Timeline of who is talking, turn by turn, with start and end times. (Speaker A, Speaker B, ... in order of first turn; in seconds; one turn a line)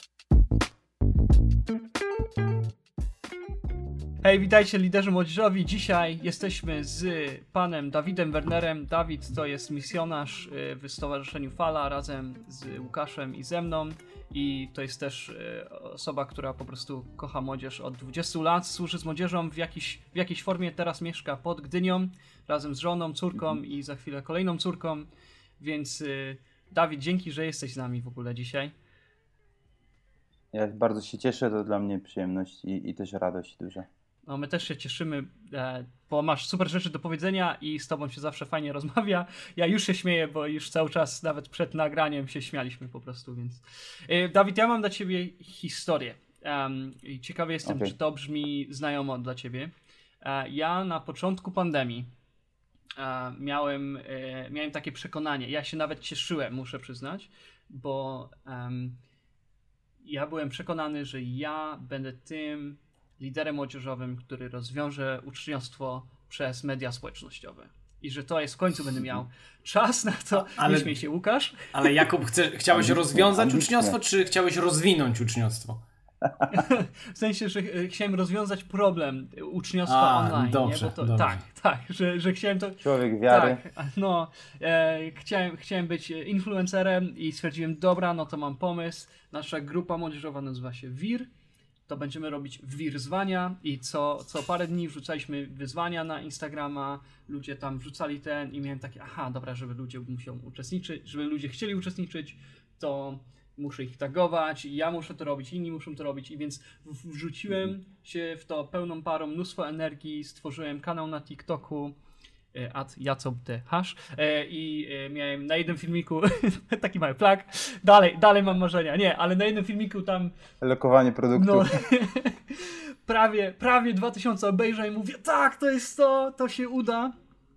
Speaker A: 4.2-25.1
Speaker A: 25.6-28.7
Speaker B: 30.5-33.9
Speaker A: 34.2-49.7
Speaker B: 47.6-47.9
Speaker A: 50.2-52.1
Speaker A: 53.0-59.0
Speaker A: 60.0-72.0
Speaker C: 70.5-70.9
Speaker C: 71.7-75.8
Speaker B: 72.7-74.0
Speaker A: 76.5-91.3
Speaker C: 79.8-81.4
Speaker B: 82.8-83.6
Speaker A: 91.9-111.9
Speaker A: 112.5-120.3
Speaker B: 120.6-121.8
Speaker A: 121.3-127.1